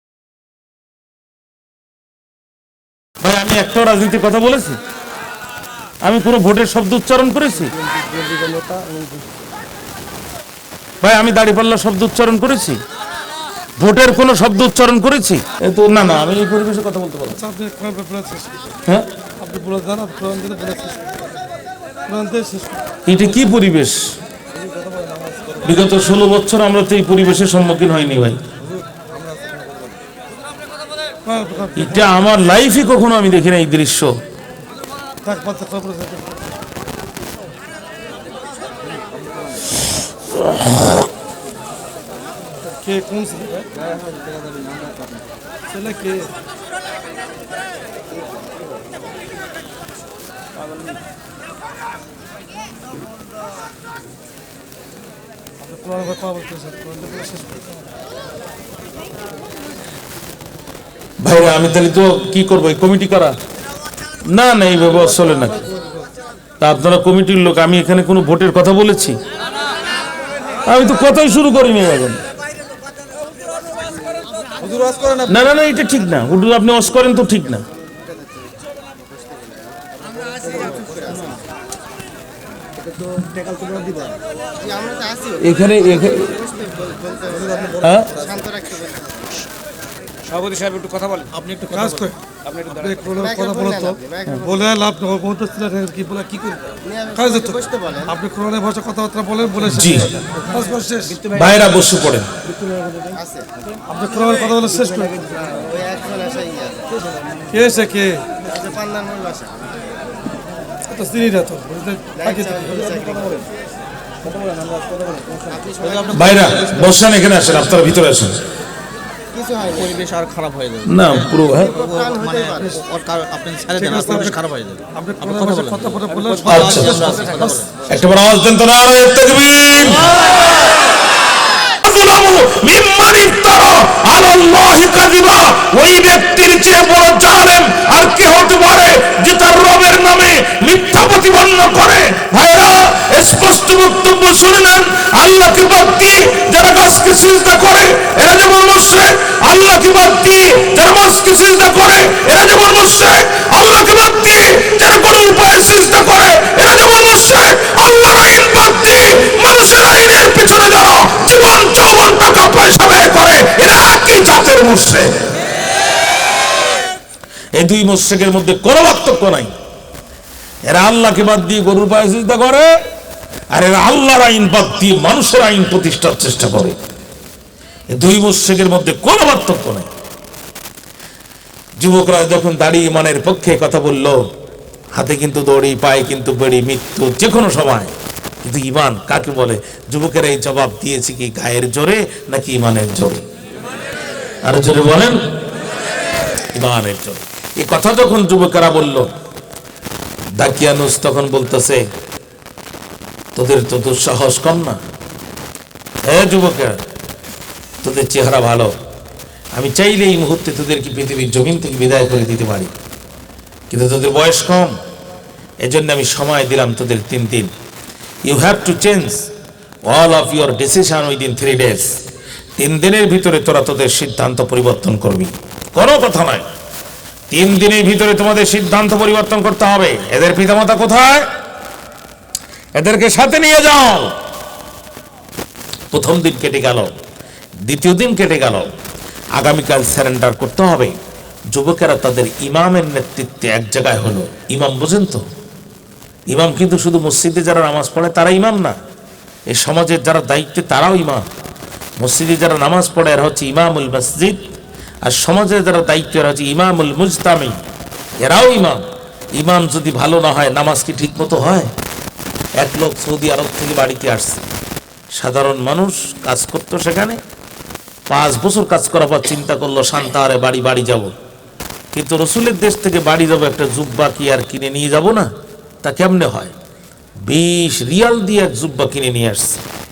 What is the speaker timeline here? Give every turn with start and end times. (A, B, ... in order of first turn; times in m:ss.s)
0:03.2-0:04.8 A
0:06.0-0:07.8 A
0:08.0-0:09.1 B
0:11.0-0:12.8 A
0:13.8-0:17.4 A
0:17.4-0:18.6 B
0:19.4-0:21.1 B
0:22.1-0:22.8 B
0:23.0-0:24.0 A
0:24.6-0:25.6 C
0:25.6-0:28.4 A
0:29.2-0:29.7 C
0:31.2-0:32.1 B
0:31.7-0:34.2 A
0:35.2-0:36.4 B
0:40.5-0:40.9 A
0:42.8-0:43.7 B
0:43.8-0:45.1 C
0:45.7-0:46.3 B
0:55.6-0:57.5 B
1:01.2-1:03.4 A
1:04.3-1:05.6 A
1:06.6-1:09.2 A
1:10.6-1:12.2 A
1:14.6-1:15.3 C
1:15.3-1:17.7 A
1:20.2-1:21.4 C
1:23.0-1:24.9 C
1:25.4-1:26.4 A
1:26.8-1:29.0 C
1:27.8-1:28.2 A
1:30.2-1:33.2 C
1:31.7-1:32.1 B
1:32.8-1:41.2 B
1:36.5-1:36.9 C
1:39.6-1:40.2 A
1:40.5-1:41.6 C
1:41.3-1:42.3 A
1:42.6-1:43.2 C
1:43.9-1:45.3 B
1:44.9-1:46.5 C
1:47.5-1:48.3 B
1:48.5-1:49.0 C
1:50.9-1:53.1 B
1:52.9-1:53.5 C
1:54.3-1:56.8 C
1:56.1-1:58.4 A
1:59.5-2:07.9 C
2:00.8-2:01.8 A
2:03.8-2:04.4 B
2:05.0-2:07.6 B
2:06.5-2:07.2 A
2:07.9-2:10.2 A
2:11.8-2:45.3 A
2:47.5-2:49.5 A
2:50.7-2:52.8 A
2:53.5-2:56.8 A
2:57.9-2:59.9 A
3:01.8-3:04.2 A
3:04.9-3:13.2 A
3:14.4-3:15.2 A
3:16.5-3:19.1 A
3:20.4-3:21.8 A
3:23.3-3:24.8 A
3:26.0-3:26.8 A
3:27.8-3:28.7 A
3:29.5-3:32.7 A
3:33.7-3:34.8 A
3:35.6-3:37.5 A
3:38.2-3:39.3 A
3:39.9-3:41.9 A
3:42.6-3:46.5 A
3:47.3-3:51.3 A
3:52.7-3:54.1 A
3:55.9-3:56.9 A
3:57.6-3:58.7 A
3:59.3-4:01.0 A
4:01.5-4:05.2 A
4:06.3-4:08.8 A
4:09.5-4:11.2 A
4:12.0-4:14.5 A
4:15.0-4:17.6 A
4:18.2-4:18.8 A
4:19.3-4:21.7 A
4:22.6-4:24.4 A
4:25.2-4:27.2 A
4:28.1-4:31.1 A
4:31.9-4:35.3 A
4:35.8-4:36.5 A
4:37.2-4:39.6 A